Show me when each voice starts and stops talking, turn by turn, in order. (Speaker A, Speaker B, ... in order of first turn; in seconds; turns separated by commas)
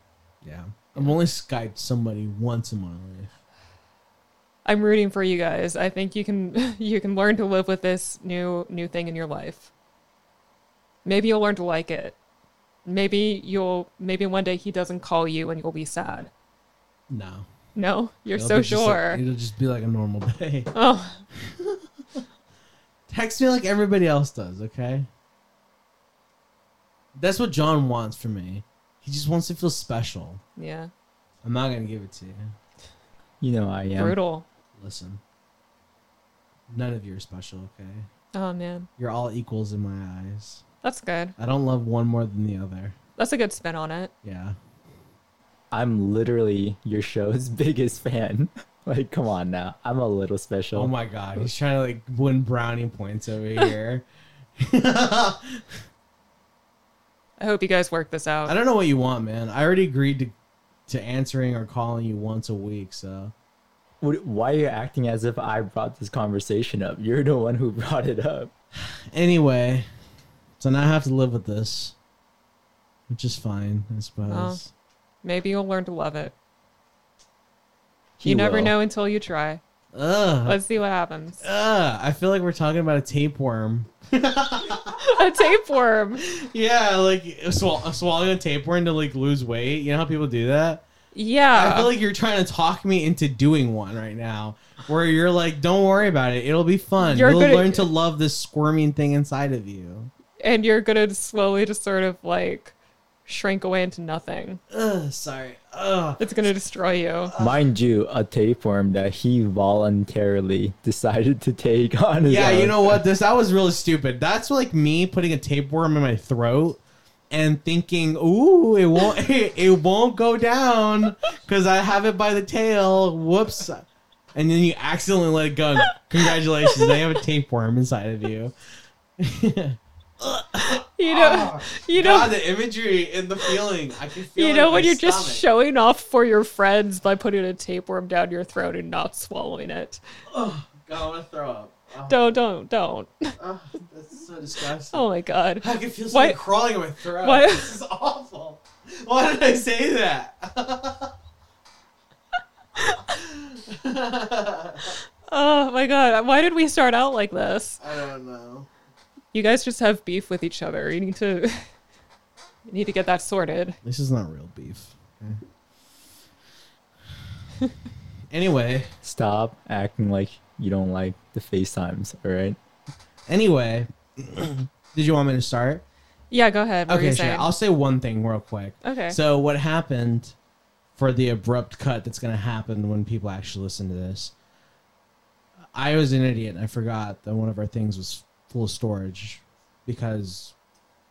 Speaker A: 0.4-3.3, Speaker B: 4.6-9.7, Speaker B: 11.0-12.2, Speaker B: 12.8-16.3, Speaker A: 17.1-17.4, Speaker B: 17.7-19.2, Speaker A: 18.3-20.7, Speaker B: 20.7-21.2, Speaker A: 23.1-25.1, Speaker A: 27.1-30.4, Speaker B: 30.6-30.9, Speaker A: 31.4-32.5, Speaker C: 33.4-34.2, Speaker B: 34.0-34.5, Speaker A: 34.8-35.2, Speaker A: 36.7-38.1, Speaker B: 38.3-38.9, Speaker A: 39.0-40.6, Speaker B: 40.8-41.3, Speaker A: 41.4-43.0, Speaker B: 43.2-44.1, Speaker A: 44.2-44.5, Speaker C: 45.7-50.9, Speaker A: 50.7-54.0, Speaker A: 54.6-55.6, Speaker B: 57.4-58.5, Speaker A: 58.5-60.3, Speaker A: 60.9-63.3, Speaker C: 64.0-68.5, Speaker A: 69.1-69.8, Speaker A: 70.6-71.9, Speaker A: 73.1-74.7, Speaker B: 74.3-74.6, Speaker B: 75.2-76.3, Speaker C: 78.2-78.7, Speaker B: 78.2-79.6, Speaker A: 79.9-80.6, Speaker B: 80.5-81.4, Speaker A: 81.4-85.0, Speaker B: 85.0-86.2, Speaker A: 86.2-90.8, Speaker B: 91.1-91.9, Speaker A: 91.5-100.1, Speaker B: 97.0-97.9, Speaker B: 100.4-102.7, Speaker B: 103.2-104.6, Speaker A: 104.7-106.2, Speaker B: 106.2-107.3, Speaker A: 107.3-107.6, Speaker C: 107.4-113.0, Speaker A: 112.2-116.8, Speaker A: 117.3-123.8, Speaker A: 124.3-128.5, Speaker B: 126.7-127.0, Speaker A: 129.2-135.4, Speaker B: 131.0-132.3, Speaker B: 134.3-140.0, Speaker A: 140.3-142.2, Speaker B: 142.1-143.3, Speaker A: 143.4-145.0, Speaker B: 144.9-146.4, Speaker A: 145.6-151.1, Speaker B: 147.2-147.7, Speaker A: 153.1-154.9, Speaker B: 155.3-157.8, Speaker A: 157.8-158.7, Speaker B: 159.3-161.6, Speaker B: 162.7-163.8, Speaker A: 163.8-165.4, Speaker A: 168.3-168.9, Speaker C: 169.0-172.6, Speaker A: 173.3-175.8, Speaker B: 176.3-177.5, Speaker A: 176.9-180.3, Speaker B: 178.8-179.2, Speaker A: 181.0-184.3, Speaker A: 185.7-190.5